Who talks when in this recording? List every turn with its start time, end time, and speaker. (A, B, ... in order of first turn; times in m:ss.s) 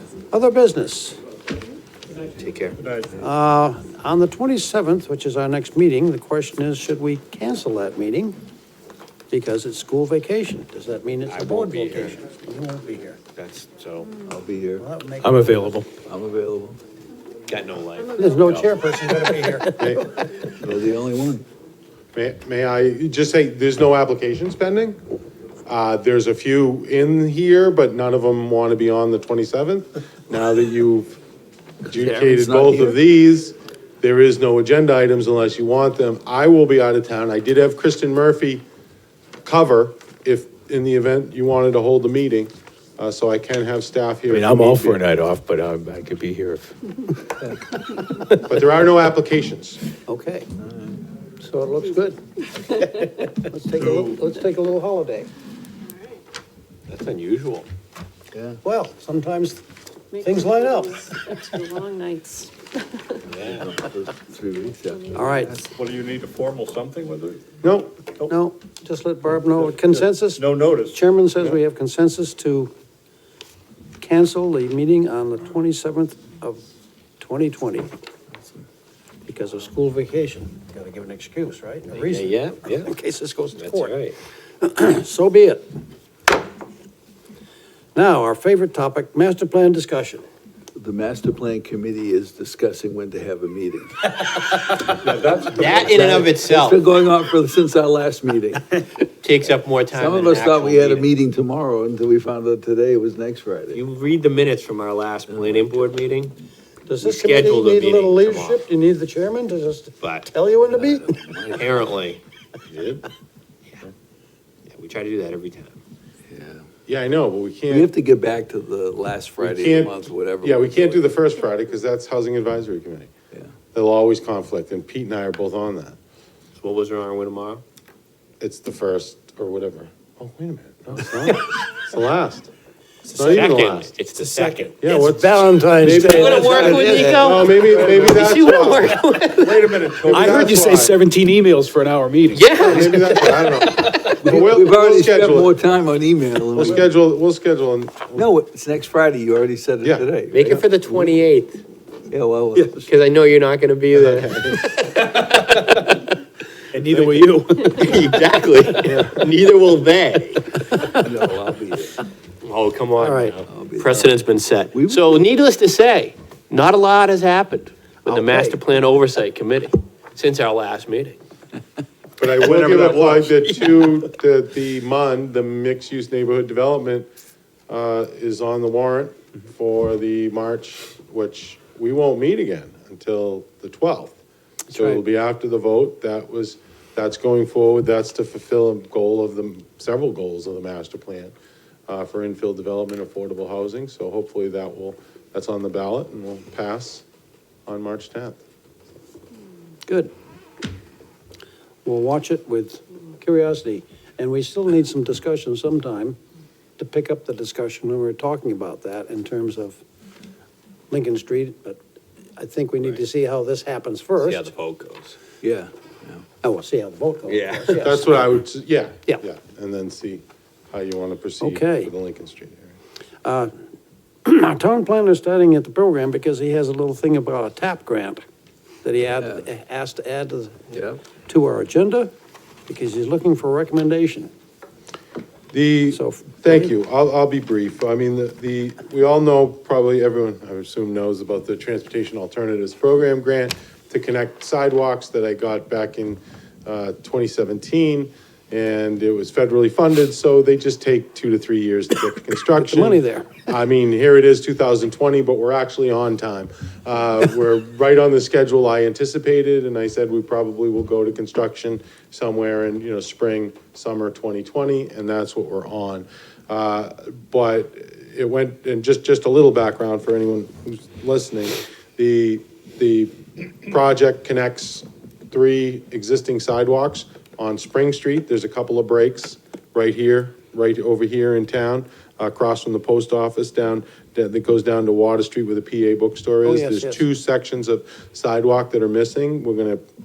0:00.3-0:01.2 A
0:02.4-0:02.8 B
0:02.8-0:03.1 C
0:03.2-0:08.4 A
0:09.3-0:13.2 A
0:11.3-0:12.2 B
0:13.4-0:14.1 B
0:14.3-0:14.8 D
0:14.8-0:15.7 A
0:15.2-0:15.9 E
0:16.1-0:16.8 D
0:17.5-0:19.6 B
0:18.2-0:19.9 A
0:19.8-0:20.1 F
0:20.6-0:21.4 D
0:22.1-0:25.0 F
0:25.7-0:31.2 F
0:31.9-0:38.6 F
0:31.9-0:32.3 B
0:32.1-0:33.0 D
0:39.4-0:45.0 F
0:44.3-0:46.7 E
0:48.4-0:49.8 F
0:50.1-0:50.5 A
0:50.6-0:51.0 D
0:51.4-0:52.2 A
0:52.8-0:55.3 A
0:53.8-0:54.2 C
0:56.9-0:57.7 B
0:58.3-0:58.6 D
0:58.6-1:01.2 A
1:00.5-1:02.6 G
1:03.3-1:03.8 B
1:03.4-1:05.7 D
1:05.1-1:05.6 A
1:05.7-1:07.4 C
1:07.6-1:07.9 F
1:08.3-1:12.7 A
1:09.6-1:11.6 C
1:14.0-1:16.6 A
1:17.2-1:17.9 A
1:19.3-1:24.0 A
1:21.9-1:22.9 B
1:23.6-1:24.2 B
1:24.6-1:25.6 A
1:28.0-1:30.2 A
1:30.8-1:34.1 D
1:35.0-1:36.0 C
1:35.5-1:36.8 B
1:35.6-1:38.9 D
1:39.2-1:41.1 B
1:39.9-1:43.8 D
1:43.7-1:46.3 B
1:45.3-1:45.7 D
1:46.9-1:51.2 A
1:47.0-1:48.6 B
1:50.0-1:50.3 B
1:50.7-1:51.8 D
1:51.5-1:53.0 B
1:54.7-1:55.8 B
1:56.3-1:56.6 D
1:56.9-1:57.9 F
1:57.7-2:01.1 D
1:59.4-2:03.1 F
2:03.7-2:06.0 F
2:06.6-2:07.6 B
2:08.4-2:12.5 F
2:13.0-2:14.8 B
2:13.2-2:14.0 F
2:14.4-2:17.2 A
2:14.8-2:19.1 F
2:15.8-2:16.3 E
2:16.1-2:19.9 B
2:17.7-2:18.4 C
2:19.3-2:20.4 C
2:20.0-2:21.0 F
2:20.1-2:23.2 E
2:22.3-2:24.2 B
2:22.6-2:25.6 F
2:24.1-2:26.9 D
2:26.5-2:28.3 F
2:28.1-2:31.1 D
2:29.8-2:30.1 F
2:30.3-2:31.6 B
2:32.1-2:32.9 D
2:32.6-2:35.6 B
2:34.0-2:34.7 F
2:36.7-2:38.0 E
2:36.8-2:37.3 C
2:37.6-2:40.8 B
2:38.8-2:39.1 D
2:41.0-2:42.0 D
2:42.4-2:51.2 B
2:43.0-2:43.4 A
2:43.5-2:44.1 D
2:44.7-2:45.2 D
2:48.1-2:48.6 A
2:52.2-2:57.1 F
2:52.4-2:53.3 C
2:57.7-3:04.2 F
3:04.7-3:11.3 F
3:11.9-3:17.0 F
3:17.7-3:18.4 F
3:19.9-3:20.1 A
3:21.8-3:26.2 A
3:26.8-3:29.8 A
3:30.9-3:31.8 A
3:32.4-3:34.5 A
3:34.2-3:35.2 B
3:35.4-3:36.2 D
3:36.4-3:38.1 A
3:37.3-3:37.8 B
3:37.7-3:42.8 F
3:41.4-3:41.9 A
3:43.2-3:43.5 A
3:44.2-3:48.2 A
3:48.8-3:50.7 A
3:49.2-3:49.4 D
3:50.7-3:51.0 D
3:51.3-3:52.1 A
3:52.7-3:54.3 A
3:55.5-4:49.8 F
3:55.9-3:56.7 A
4:12.6-4:13.3 A
4:46.4-4:47.0 A